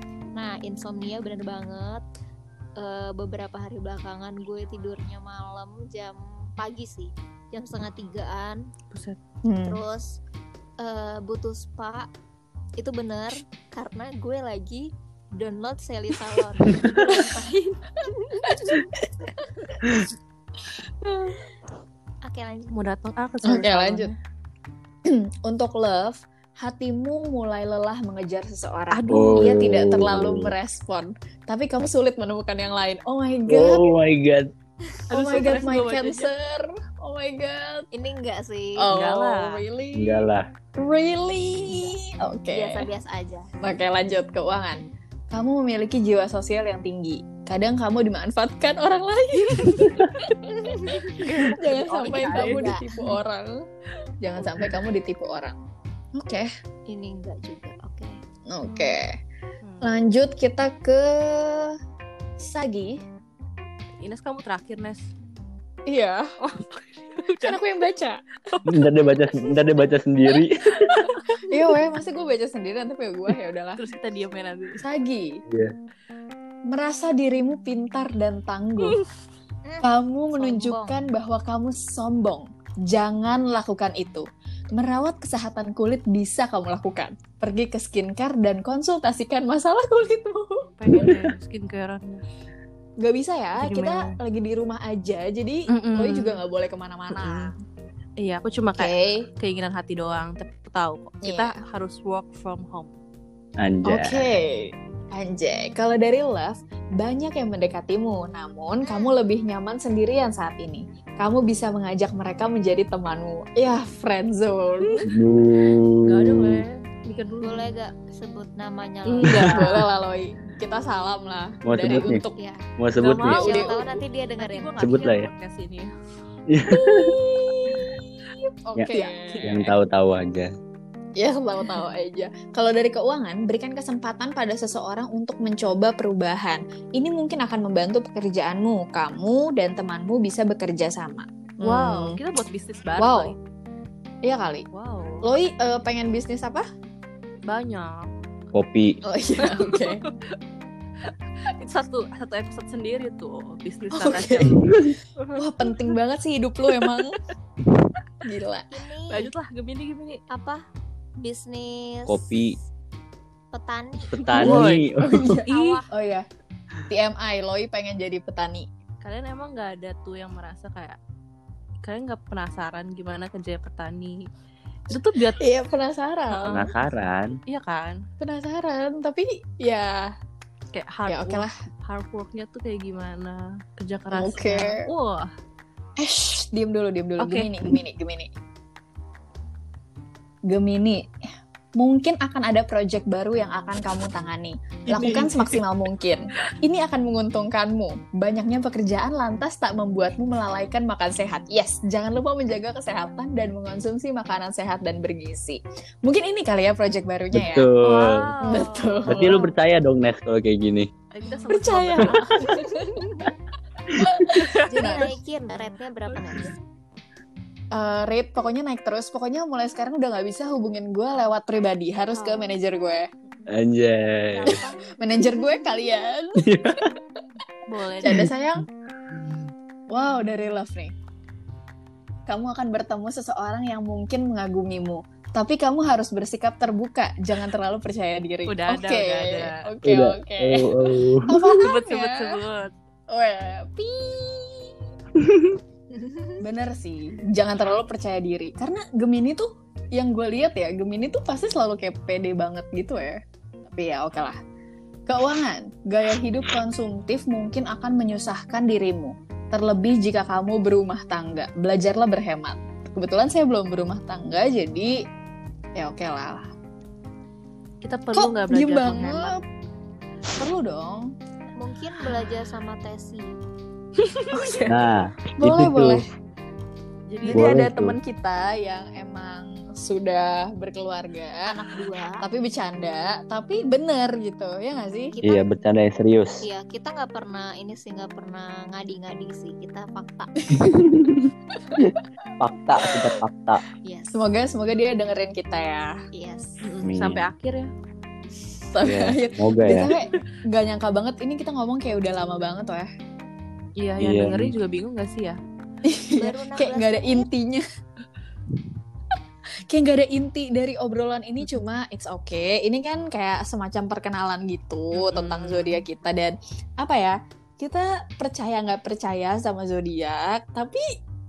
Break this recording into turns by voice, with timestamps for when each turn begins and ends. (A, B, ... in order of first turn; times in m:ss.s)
0:00.3-0:02.0 A
0:02.8-0:08.6 A
0:08.9-0:09.2 B
0:09.4-0:09.8 C
0:09.6-0:10.2 A
0:10.8-0:12.1 A
0:12.8-0:18.6 A
0:22.2-0:22.8 A
0:22.7-0:24.1 B
0:23.4-0:24.1 C
0:25.1-0:33.8 C
0:28.9-0:29.5 B
0:29.1-0:30.5 D
0:33.5-0:34.5 D
0:35.1-0:36.3 B
0:35.1-0:37.8 C
0:37.9-0:38.9 A
0:38.8-0:42.9 C
0:38.9-0:39.6 B
0:40.0-0:40.5 D
0:41.7-0:41.9 A
0:42.5-0:43.5 A
0:43.6-0:44.8 C
0:45.3-0:50.1 C
0:49.5-0:50.2 B
0:50.6-0:51.0 A
0:50.8-0:53.6 C
0:51.1-0:53.2 B
0:52.2-0:52.8 A
0:54.2-0:55.6 C
0:54.4-0:54.8 B
0:56.1-0:56.5 C
0:56.9-0:58.2 A
0:58.5-0:59.1 C
0:59.6-1:00.0 B
0:59.8-1:01.7 C
1:02.4-1:03.0 C
1:04.0-1:05.1 B
1:05.8-1:06.2 C
1:06.4-1:07.7 B
1:07.4-1:08.2 C
1:08.5-1:08.8 B
1:08.7-1:11.1 D
1:11.4-1:13.8 C
1:13.8-1:14.8 B
1:14.8-1:15.3 C
1:15.5-1:15.7 D
1:16.7-1:19.0 C
1:19.6-1:21.1 A
1:19.8-1:31.2 C
1:30.8-1:32.2 B
1:33.0-1:37.5 C
1:33.6-1:34.1 B
1:35.7-1:36.4 B
1:37.1-1:37.5 B
1:38.2-1:42.9 B
1:38.8-1:39.3 C
1:41.2-1:41.5 C
1:43.6-1:44.3 D
1:43.8-1:55.0 C
1:48.8-1:49.2 A
1:55.0-1:56.6 D
1:56.0-1:57.7 B
1:57.1-1:59.5 A
1:59.0-1:59.9 B
1:59.2-2:02.4 C
2:01.6-2:02.2 D
2:02.8-2:03.4 D
2:03.0-2:05.9 B
2:03.2-2:03.8 C
2:03.3-2:05.1 A
2:04.8-2:05.3 D
2:06.5-2:07.2 D
2:06.7-2:08.0 C
2:08.7-2:09.7 C
2:08.9-2:09.6 B
2:09.4-2:10.5 D
2:11.2-2:22.2 C
2:11.6-2:11.9 B
2:21.6-2:23.4 B
2:23.0-2:23.3 C
2:24.2-2:24.6 C
2:24.7-2:25.2 B
2:25.2-2:26.6 C
2:27.4-2:28.0 B
2:28.5-2:29.0 D
2:29.0-2:30.0 C
2:29.5-2:30.1 B
2:31.4-2:35.4 B
2:33.9-2:34.8 C
2:35.4-2:37.2 C
2:36.7-2:37.0 B
2:38.2-2:38.7 C
2:38.7-2:39.3 A
2:39.1-2:40.2 B
2:40.3-2:40.6 A
2:41.2-2:42.5 A
2:42.1-2:42.6 D
2:43.5-2:44.5 A
2:44.1-2:45.4 D
2:44.3-2:45.8 B
2:44.4-2:46.2 C
2:45.5-2:45.8 A
2:46.9-2:48.7 C
2:49.0-2:51.0 B
2:51.8-2:54.3 B
2:54.9-2:55.4 B
2:55.4-2:56.6 C
2:56.4-2:56.7 B
2:56.4-2:57.3 D
2:57.5-2:58.0 B
2:58.2-3:00.1 C
3:00.7-3:05.3 B
3:01.1-3:01.5 C
3:04.1-3:04.8 C
3:06.0-3:08.3 C
3:07.2-3:07.8 B
3:10.5-3:11.0 C
3:11.8-3:27.7 C
3:14.9-3:15.6 B
3:27.3-3:28.2 D
3:27.8-3:29.3 A
3:28.4-3:29.4 C
3:29.1-3:30.9 D
3:31.1-3:32.6 B
3:31.5-3:32.9 C
3:34.0-3:35.1 C
3:34.3-3:34.9 B
3:34.7-3:36.5 A
3:37.7-3:43.0 C
3:42.1-3:42.5 A
3:43.5-3:44.5 D
3:44.2-3:44.8 B
3:44.9-3:46.4 C
3:46.4-3:46.9 D
3:47.7-3:48.3 B
3:48.0-3:48.6 C
3:49.9-3:50.9 C
3:52.3-4:00.7 C
3:58.5-3:59.7 B
3:59.8-4:01.3 D
4:01.2-4:02.3 C
4:01.4-4:02.7 B
4:03.1-4:04.8 C
4:05.9-4:06.4 A
4:06.4-4:14.4 C
4:15.1-4:24.9 C
4:25.8-4:26.5 C
4:27.8-4:29.3 B
4:28.1-4:29.4 C
4:30.4-4:31.1 C
4:31.6-4:33.3 A
4:34.0-4:34.8 B
4:34.3-4:34.7 C
4:34.7-4:36.0 D
4:35.4-4:36.0 C
4:37.1-4:37.5 B
4:37.2-4:45.2 C
4:37.3-4:38.0 D
4:41.6-4:42.2 A
4:45.1-4:45.4 A
4:45.2-4:46.4 D
4:46.4-4:50.3 A
4:50.4-4:50.7 C
4:50.6-4:53.6 D
4:53.8-4:54.2 A
4:54.1-4:55.9 C
4:56.1-4:56.6 A
4:56.6-4:57.7 B
4:56.8-4:57.2 D
4:58.7-5:02.9 C
4:58.8-4:59.9 D
5:03.8-5:05.4 B
5:04.0-5:04.5 D
5:05.8-5:07.6 C
5:06.2-5:07.2 A
5:09.7-5:20.8 C
5:14.9-5:15.8 B